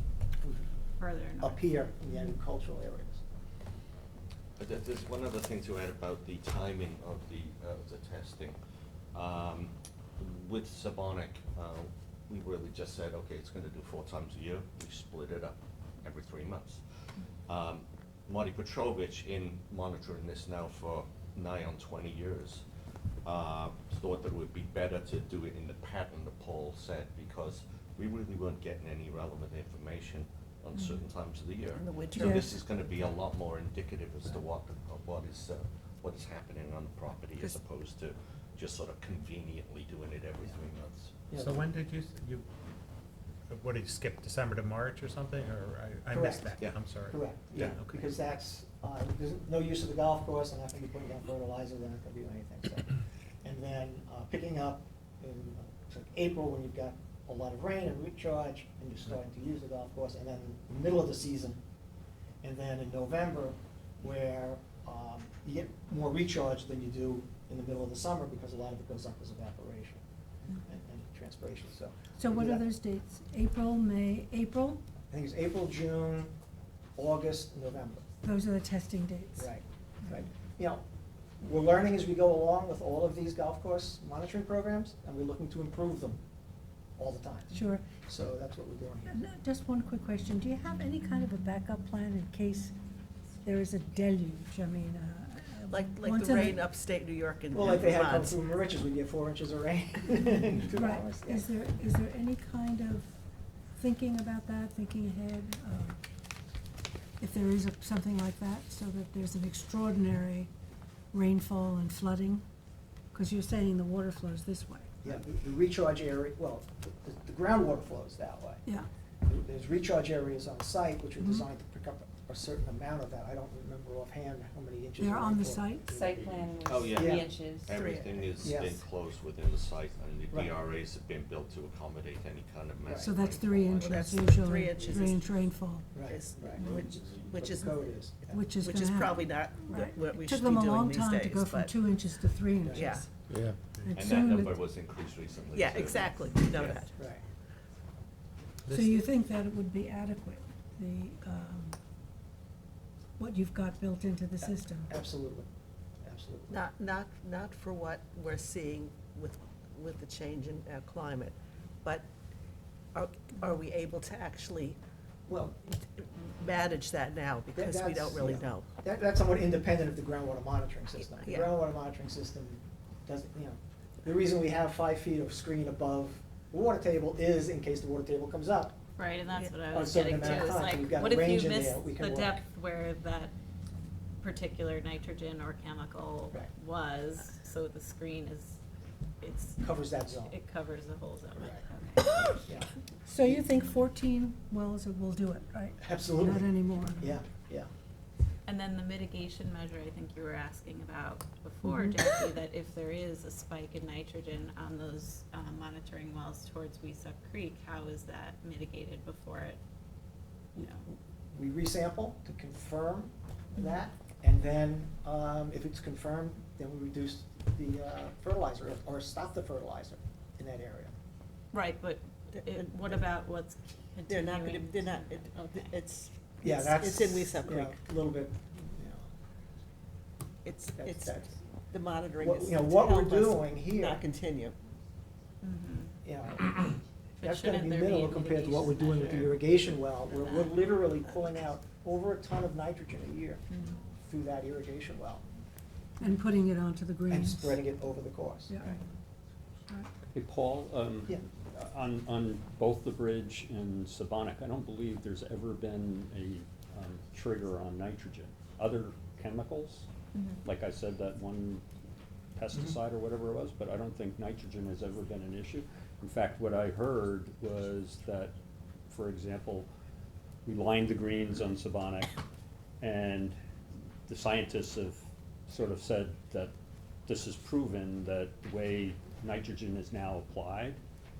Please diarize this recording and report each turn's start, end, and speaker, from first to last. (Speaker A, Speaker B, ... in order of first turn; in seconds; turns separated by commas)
Speaker A: 0.4-0.7, Speaker B: 1.0-1.6, Speaker A: 1.4-3.2, Speaker C: 4.6-8.6, Speaker C: 9.1-16.8, Speaker C: 17.5-22.6, Speaker C: 23.2-41.2, Speaker B: 30.8-31.0, Speaker D: 31.7-32.5, Speaker E: 32.2-32.5, Speaker A: 41.3-41.7, Speaker F: 41.5-42.5, Speaker F: 43.5-47.0, Speaker A: 46.1-61.6, Speaker A: 62.4-72.7, Speaker E: 72.2-74.8, Speaker A: 75.1-76.3, Speaker A: 77.0-78.0, Speaker E: 78.2-79.5, Speaker A: 79.4-80.8, Speaker A: 81.4-86.2, Speaker A: 87.0-89.2, Speaker E: 87.5-87.9, Speaker E: 89.1-92.8, Speaker E: 93.4-96.7, Speaker D: 95.7-98.4, Speaker A: 97.5-101.5, Speaker E: 100.7-103.1, Speaker E: 103.8-106.0, Speaker E: 107.2-110.5, Speaker E: 111.1-112.4, Speaker E: 113.1-115.1, Speaker A: 115.0-118.7, Speaker A: 119.3-126.1, Speaker E: 121.2-121.5, Speaker E: 125.0-125.9, Speaker G: 125.9-128.4, Speaker C: 126.7-134.3, Speaker A: 127.0-127.3, Speaker D: 127.7-128.2, Speaker A: 128.4-128.8, Speaker A: 130.3-130.6, Speaker A: 132.8-133.1, Speaker E: 133.0-136.0, Speaker D: 133.8-135.3, Speaker A: 135.9-138.5, Speaker D: 136.0-143.1, Speaker E: 138.3-143.1, Speaker A: 142.6-143.0, Speaker E: 143.8-144.6, Speaker C: 143.9-146.9, Speaker D: 145.5-147.0, Speaker A: 146.9-147.2, Speaker E: 148.7-151.8, Speaker E: 153.2-154.9, Speaker A: 154.4-155.5, Speaker A: 156.0-156.6, Speaker D: 156.5-162.1, Speaker D: 162.9-164.8, Speaker A: 165.3-165.6, Speaker D: 165.7-168.7, Speaker A: 167.6-178.8, Speaker D: 171.0-171.6, Speaker B: 179.0-183.3, Speaker D: 179.3-180.5, Speaker A: 179.7-182.4, Speaker B: 184.2-188.6, Speaker B: 189.2-192.2, Speaker A: 189.6-190.4, Speaker A: 191.4-191.6, Speaker A: 192.2-192.7, Speaker E: 193.1-197.2, Speaker A: 195.8-197.7, Speaker B: 198.5-209.6, Speaker E: 201.6-202.0, Speaker B: 210.6-210.9, Speaker A: 210.9-221.0, Speaker B: 221.5-225.3, Speaker D: 222.3-223.0, Speaker D: 224.1-227.8, Speaker A: 226.4-229.1, Speaker D: 230.4-234.6, Speaker A: 230.8-231.4, Speaker A: 232.2-234.0, Speaker B: 235.4-235.9, Speaker A: 236.0-245.2, Speaker B: 237.2-239.5, Speaker B: 240.2-240.6, Speaker B: 243.5-243.8, Speaker E: 246.0-247.6, Speaker A: 247.1-248.8, Speaker E: 248.5-248.8, Speaker H: 250.1-259.9, Speaker B: 260.1-260.4, Speaker H: 260.4-261.7, Speaker H: 262.4-268.4, Speaker H: 268.9-269.7, Speaker H: 270.4-272.2, Speaker H: 272.8-273.4, Speaker H: 274.1-276.5, Speaker H: 277.1-280.8